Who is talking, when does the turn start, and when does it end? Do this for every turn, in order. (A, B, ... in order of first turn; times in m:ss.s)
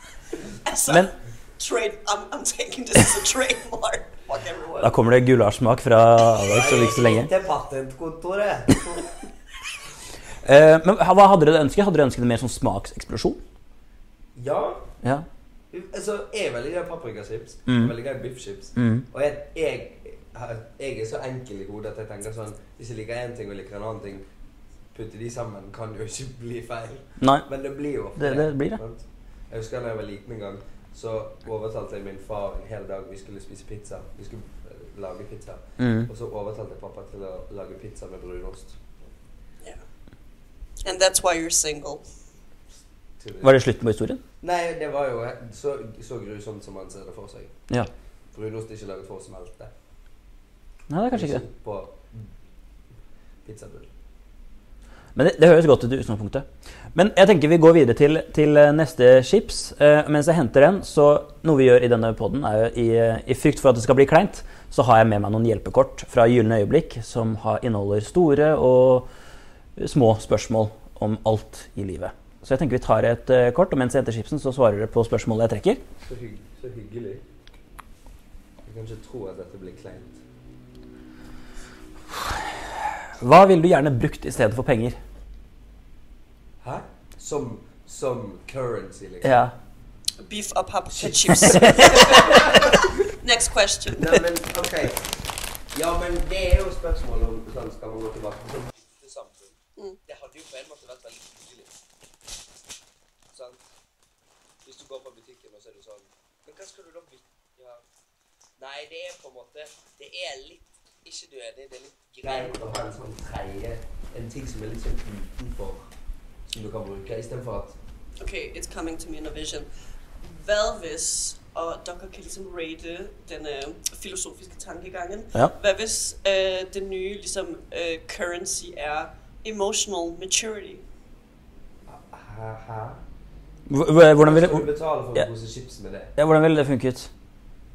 0:00.6-0:05.0 A
0:04.8-0:07.3 B
0:06.4-0:09.2 C
0:10.4-0:13.4 B
0:14.4-0:14.9 C
0:15.7-0:24.2 C
0:17.7-0:17.9 B
0:18.8-0:19.0 B
0:24.9-0:38.8 C
0:27.2-0:27.5 B
0:28.2-0:28.8 B
0:35.8-0:36.1 B
0:40.8-0:42.0 A
0:43.2-0:43.6 C
0:43.4-0:44.2 B
0:44.4-0:47.5 C
0:48.3-0:49.7 C
0:50.9-0:51.4 B
0:51.1-0:52.3 C
0:53.4-0:53.9 C
0:55.2-1:09.1 B
1:09.8-1:15.8 B
1:16.0-1:17.2 C
1:18.6-1:20.2 C
1:23.2-1:25.0 B
1:26.6-1:29.4 C
1:29.2-1:29.5 B
1:30.2-1:34.2 A
1:31.2-1:32.6 B
1:31.6-1:32.7 C
1:33.9-1:35.1 C
1:35.7-1:41.8 C
1:43.3-1:43.6 C
1:44.6-1:47.8 C
1:48.6-1:55.9 C
1:56.5-1:57.8 C
1:58.2-1:59.7 A
2:00.2-2:10.8 A
2:11.9-2:13.0 C
2:13.7-2:15.2 B
2:14.2-2:16.1 C
2:16.2-2:17.1 B